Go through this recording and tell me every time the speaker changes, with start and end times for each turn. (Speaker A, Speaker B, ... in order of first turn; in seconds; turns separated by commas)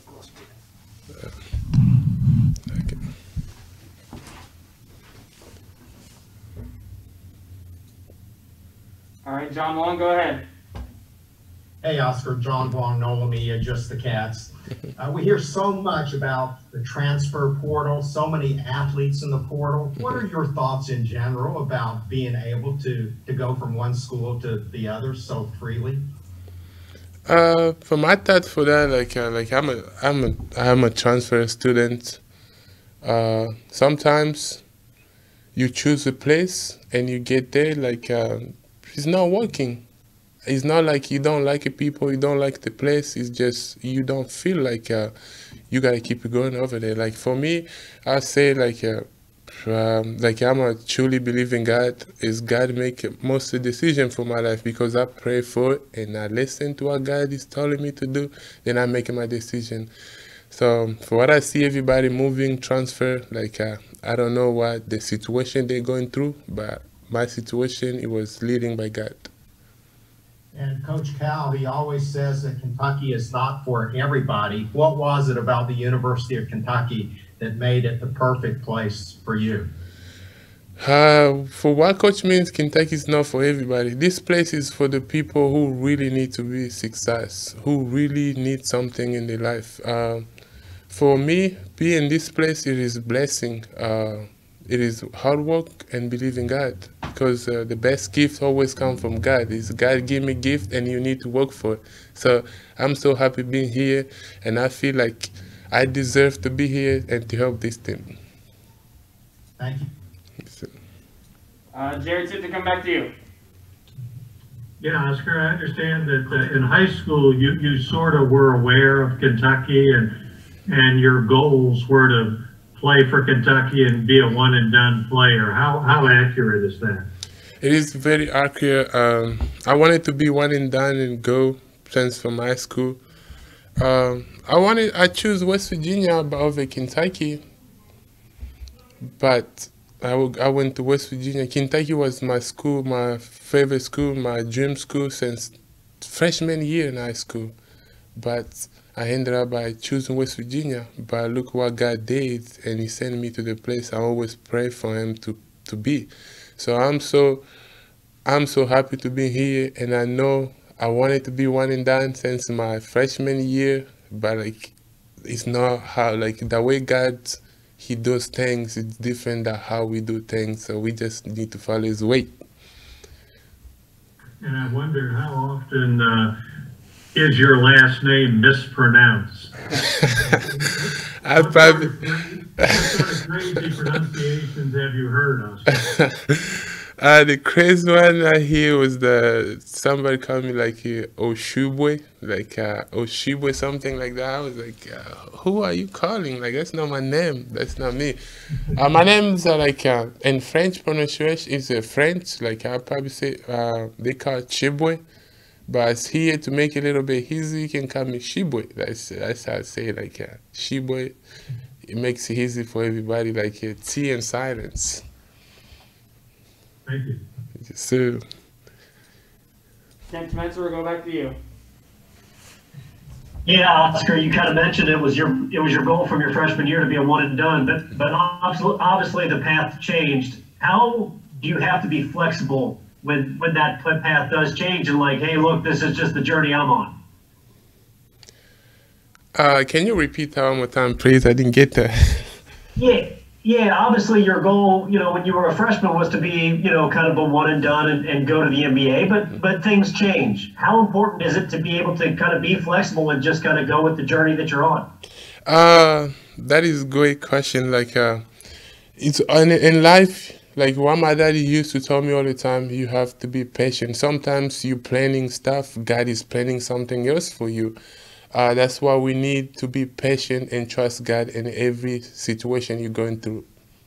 Speaker A: 2.7-3.0, Speaker B: 9.2-10.4, Speaker C: 11.8-26.1, Speaker A: 27.3-32.2, Speaker A: 33.0-34.6, Speaker A: 35.5-39.9, Speaker A: 40.5-45.1, Speaker A: 45.7-49.0, Speaker A: 49.6-59.9, Speaker A: 60.5-69.3, Speaker C: 70.5-79.7, Speaker A: 80.8-90.2, Speaker A: 90.9-108.1, Speaker C: 109.6-109.9, Speaker A: 110.4-110.7, Speaker B: 111.7-113.1, Speaker D: 114.8-120.1, Speaker D: 120.7-127.1, Speaker A: 127.6-133.0, Speaker A: 133.8-137.4, Speaker A: 139.2-147.5, Speaker A: 148.2-157.4, Speaker A: 158.3-172.3, Speaker D: 174.4-176.3, Speaker D: 177.1-179.5, Speaker A: 181.2-182.0, Speaker D: 181.4-185.6, Speaker A: 182.8-183.1, Speaker A: 185.7-198.2, Speaker A: 198.7-205.0, Speaker A: 205.7-211.2, Speaker A: 211.9-215.0, Speaker D: 216.9-217.2, Speaker A: 217.6-218.2, Speaker B: 220.1-221.4, Speaker E: 223.5-236.9, Speaker A: 239.3-242.4, Speaker E: 242.8-254.9, Speaker A: 255.5-258.2, Speaker A: 259.0-267.8, Speaker A: 268.3-273.5